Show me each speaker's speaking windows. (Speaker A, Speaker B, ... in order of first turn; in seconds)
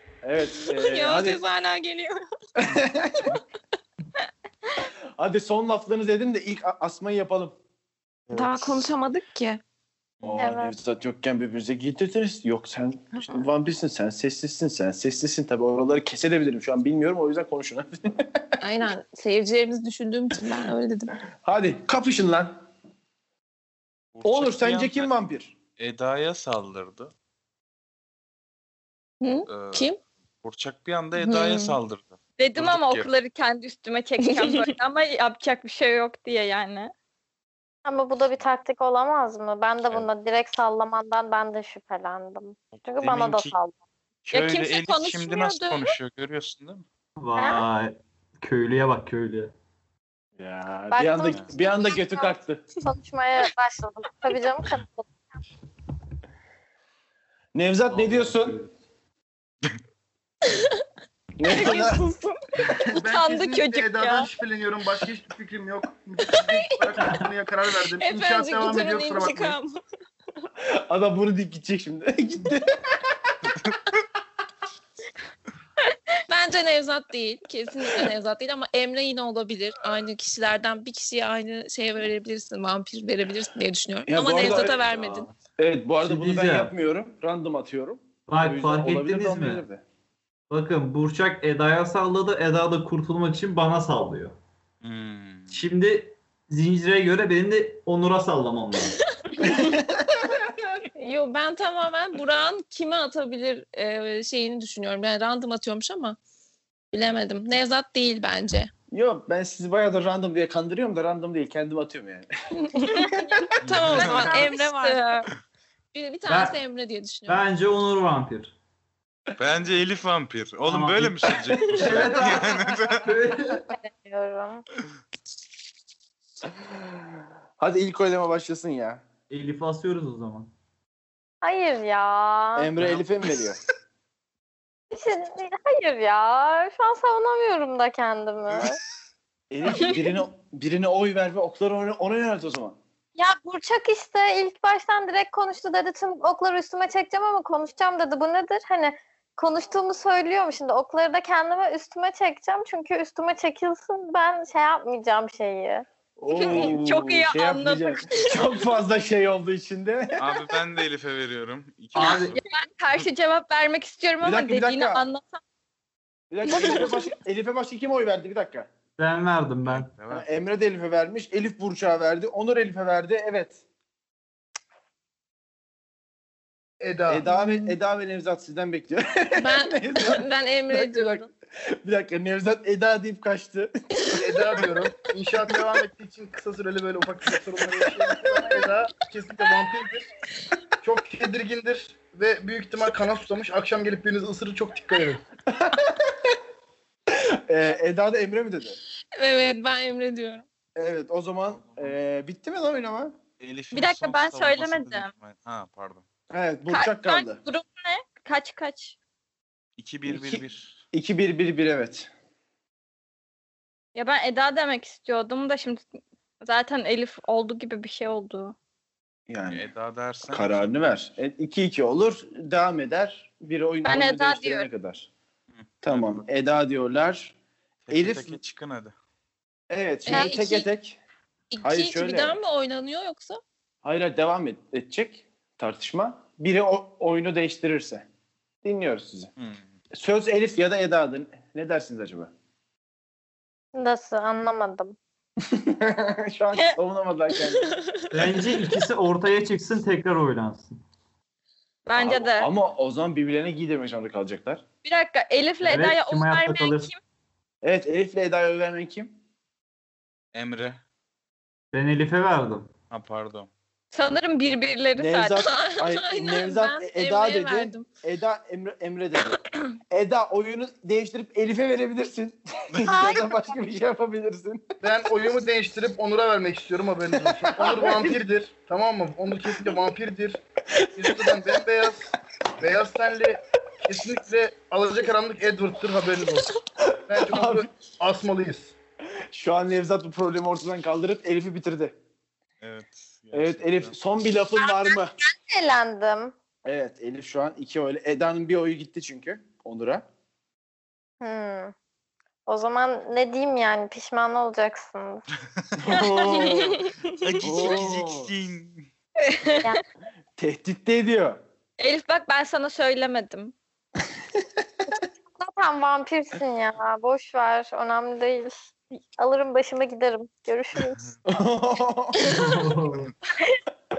Speaker A: 0.2-1.4, 2.6-3.4, 5.2-7.5, 10.2-18.4, 21.4-22.6, 24.2-25.5, 50.4-52.6, 57.5-58.6, 61.4-62.0, 70.7-73.3, 84.1-84.8, 85.6-89.8, 108.9-112.3, 121.5-122.1, 127.6-129.0, 132.6-133.6, 139.5-142.8, 156.2-160.4, 164.2-165.1, 166.3-168.7, 170.1-173.6, 177.1-183.8, 188.0-188.6, 195.5-196.3, 197.1-198.8, 200.8-203.2, 206.3-207.4, 210.1-212.1, 219.3-219.7, 220.3-225.1, 225.8-227.3, 227.9-228.4, 229.7-231.0, 231.6-232.4, 233.8-238.1, 238.6-239.3, 239.9-242.3, 245.4-247.8, 251.9-254.6, 257.6-259.1, 265.0-269.4, 269.9-274.6, 277.3-278.1, 280.8-281.3, 286.8-287.7, 289.3-291.9, 293.3-295.1, 296.6-300.0, 305.8-306.8, 307.4-308.3, 310.4-311.4, 321.2-322.3
Speaker B: 0.6-2.2, 8.3-9.6, 18.6-21.1, 29.2-30.0, 31.2-31.8, 34.3-34.7, 61.5-62.3, 66.5-66.8, 67.9-69.8, 76.3-85.3, 101.0-106.2, 106.9-108.7, 112.6-113.1, 113.6-115.2, 115.9-117.4, 177.3-177.7, 179.4-181.3, 199.2-200.4, 230.1-230.7, 231.5-233.4, 265.4-267.9
Speaker C: 10.4-10.7, 37.9-43.7, 47.4-47.6, 50.9-55.1, 123.7-124.6, 131.4-132.7, 134.9-138.8, 143.2-155.8, 243.7-244.9, 272.9-273.3, 294.6-296.3, 301.2-301.7, 302.5-305.2, 315.4-318.5, 319.2-321.0
Speaker D: 24.1-25.1, 25.8-27.1, 29.5-29.9, 30.4-33.1, 42.7-43.5, 44.2-46.8, 94.8-95.6, 113.8-114.5, 119.4-123.1, 132.9-133.3, 160.2-162.4, 169.7-170.2, 201.6-201.9, 203.4-206.0, 209.8-210.8, 219.4-220.8, 225.6-226.2, 227.9-228.9, 239.4-239.7, 260.3-260.8, 262.9-263.5, 292.6-293.9, 307.2-308.9
Speaker E: 32.4-36.9, 44.3-45.9, 62.9-64.3, 112.9-115.2, 156.3-158.4, 162.0-165.4, 166.4-167.1, 203.7-205.1, 206.7-208.9, 213.9-215.8, 216.4-218.5, 223.8-224.7, 251.8-252.5, 254.8-257.0, 263.9-265.4, 309.2-309.7, 311.8-313.5
Speaker F: 47.2-49.5, 57.9-58.7, 86.0-86.7, 88.3-89.6, 90.5-94.3, 95.5-99.0, 116.3-116.6, 117.3-118.5, 120.7-123.6, 129.3-130.5, 161.9-162.4, 169.0-169.9, 248.1-250.8, 255.6-256.9, 261.7-262.7, 322.2-323.1
Speaker G: 62.8-69.6, 176.8-177.3, 184.1-190.1, 190.8-195.2, 274.8-280.4, 280.9-288.7